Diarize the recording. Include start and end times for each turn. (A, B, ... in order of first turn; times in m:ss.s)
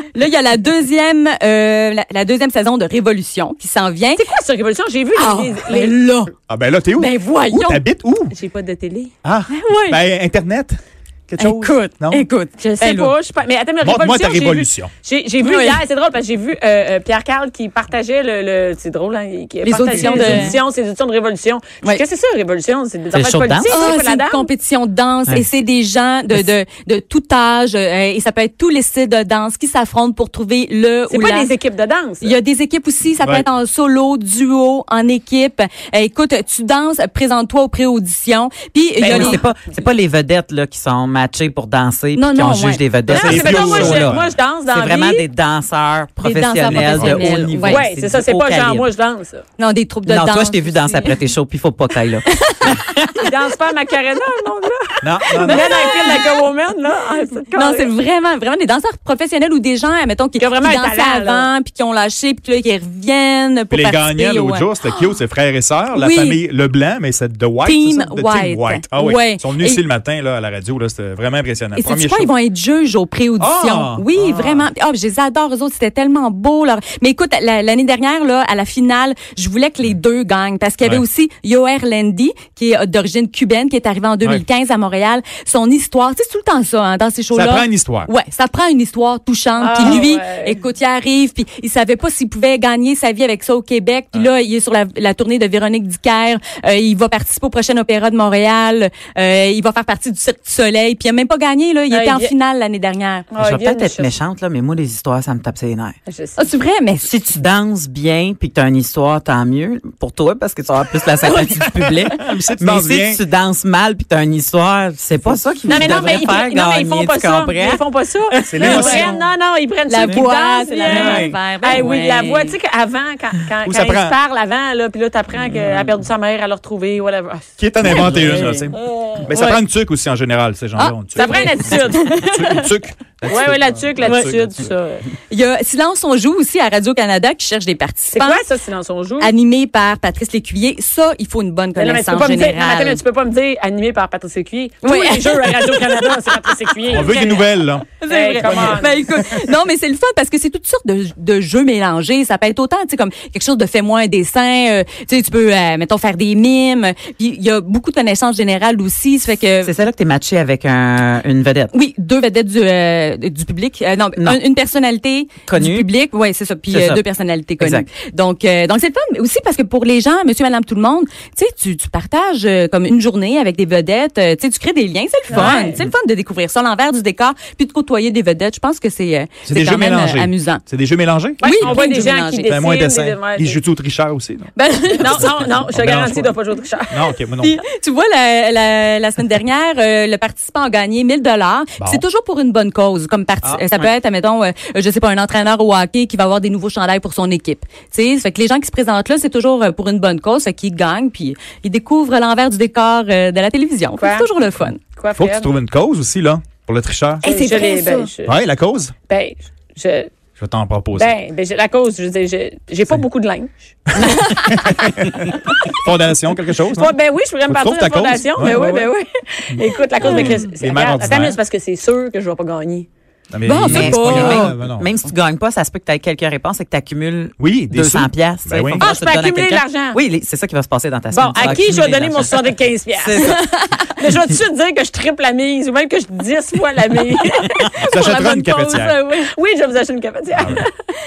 0:00.1-0:04.2 A
0:04.2-0:06.0 B
0:05.1-0:06.3 A
0:06.5-0:08.3 C
0:07.0-0:07.8 A
0:08.3-0:09.1 B
0:09.2-0:12.2 C
0:09.5-0:10.0 A
0:11.4-0:13.1 A
0:12.6-0:24.5 B
0:13.8-0:14.9 C
0:15.4-0:15.8 A
0:19.6-0:20.6 A
0:19.9-0:20.5 C
0:23.1-0:23.9 D
0:23.7-0:31.5 A
0:31.1-0:32.3 B
0:32.2-0:39.4 A
0:33.2-0:33.5 C
0:39.0-0:39.5 B
0:39.0-0:48.9 D
0:42.1-0:42.9 A
0:43.1-0:45.2 B
0:43.1-0:44.3 C
0:46.2-0:47.8 A
0:46.7-0:49.4 B
0:49.6-0:51.1 A
0:50.1-0:52.9 D
0:52.3-0:52.9 A
0:53.2-0:57.9 B
0:55.0-0:55.7 C
0:55.4-0:56.3 A
0:57.5-1:05.1 A
1:00.4-1:01.5 B
1:03.7-1:12.3 C
1:05.9-1:06.4 A
1:07.6-1:09.8 A
1:11.7-1:43.2 A
1:13.4-1:14.7 C
1:20.8-1:21.0 C
1:27.3-1:28.1 C
1:29.6-1:30.6 B
1:41.9-1:42.3 B
1:43.3-1:44.2 B
1:43.4-1:46.0 D
1:46.1-1:46.5 B
1:46.4-1:47.1 A
1:47.0-1:59.1 D
1:51.3-1:53.2 C
1:55.2-1:55.9 C
1:55.7-2:07.5 B
1:58.5-1:59.1 C
1:58.6-1:59.1 A
1:59.9-2:02.5 A
2:00.9-2:01.4 D
2:03.6-2:04.2 C
2:05.5-2:05.9 D
2:07.6-2:14.7 C
2:07.8-2:08.7 A
2:07.9-2:08.5 D
2:08.7-2:09.1 B
2:09.3-2:09.6 A
2:10.8-2:12.7 A
2:11.1-2:12.5 B
2:13.3-2:15.0 B
2:13.3-2:14.3 A
2:15.3-2:18.4 A
2:18.1-2:19.3 B
2:19.2-2:23.0 A
2:21.8-2:29.0 B
2:24.8-2:26.2 A
2:26.9-2:28.8 C
2:28.0-2:39.7 A
2:39.6-2:41.7 D
2:41.7-3:00.6 A
2:45.4-2:45.9 D
2:46.7-2:47.0 D
2:47.6-2:47.9 D
2:55.3-2:55.7 B
2:55.3-2:55.9 D
2:59.4-3:01.9 C
3:01.4-3:03.6 B
3:01.4-3:02.6 A
3:02.5-3:04.5 C
3:04.6-3:05.5 A
3:05.0-3:07.0 B
3:05.2-3:06.4 C
3:06.9-3:07.6 C
3:07.4-3:24.8 A
3:11.8-3:12.0 C
3:13.4-3:13.9 C
3:24.0-3:24.3 B
3:25.0-3:25.5 B
3:25.2-3:27.3 C
3:27.2-3:28.1 A
3:27.2-3:28.4 B
3:28.2-3:28.9 C
3:29.1-3:30.1 B
3:30.4-3:31.1 C
3:30.9-3:33.5 B
3:33.9-3:38.9 C
3:34.0-3:34.7 A
3:36.7-3:42.9 B
3:38.4-3:38.9 A
3:39.6-3:41.4 C
3:40.0-3:40.4 A
3:43.3-3:44.9 C
3:43.4-3:44.5 A
3:43.6-3:53.4 D
3:47.4-3:48.9 C
3:48.8-3:50.0 B
3:51.1-3:53.4 B
3:53.2-3:53.9 A
3:54.0-3:58.2 B
3:57.6-3:59.3 A
3:57.8-3:59.0 C
3:59.1-4:00.7 B
4:00.4-4:00.6 C